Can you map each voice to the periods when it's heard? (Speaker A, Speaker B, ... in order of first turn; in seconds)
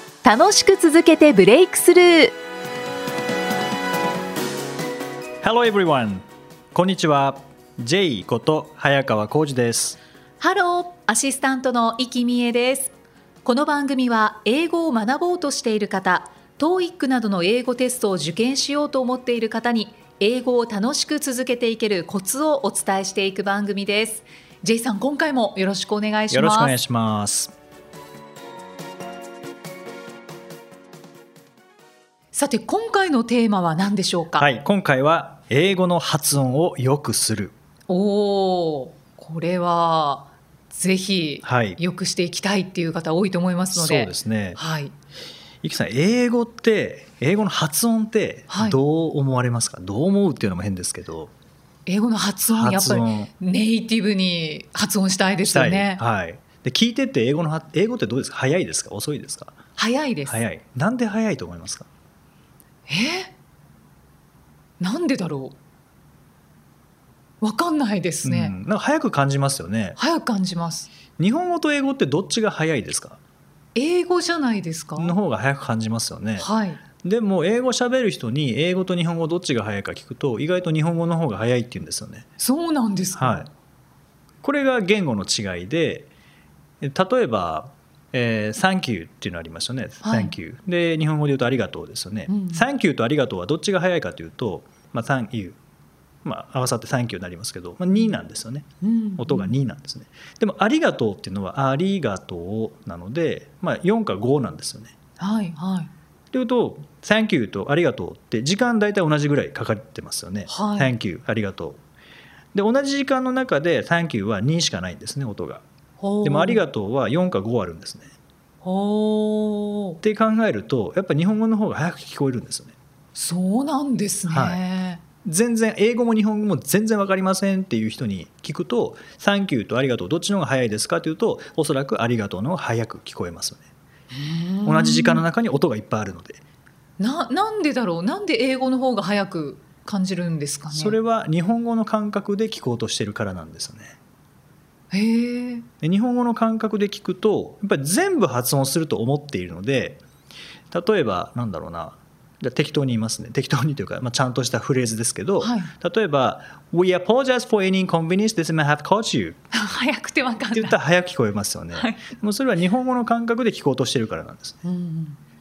Speaker A: 0.2-2.4, 10.4-12.9, 13.4-26.8, 32.3-34.5, 37.9-44.9, 48.5-48.8, 51.9-56.0, 59.8-60.4, 62.9-63.3, 64.8-65.5, 67.4-68.6, 70.0-70.9, 73.8-75.2, 76.4-76.8, 82.4-83.5, 90.0-90.3, 92.3-92.7, 98.8-99.5, 105.2-105.9, 110.5-110.9, 116.0-116.6, 118.6-120.0, 123.2-125.0, 134.1-135.2, 137.0-141.0, 144.9-145.7, 155.4-155.7, 159.5-160.8, 161.8-162.1, 164.6-165.2
Speaker B: 5.4-10.0, 26.3-27.5, 34.4-37.5, 41.4-41.8, 43.7-44.6, 45.6-51.3, 52.5-53.3, 55.5-59.6, 60.3-61.9, 68.2-70.0, 71.2-73.2, 75.0-76.5, 77.0-82.3, 83.2-83.5, 84.4-86.1, 86.8-95.6, 96.2-104.9, 106.3-111.8, 112.5-115.6, 116.2-118.1, 120.0-122.7, 124.3-124.6, 125.2-133.7, 134.7-136.4, 140.7-144.0, 145.8-150.0, 150.7-159.4, 160.5-164.6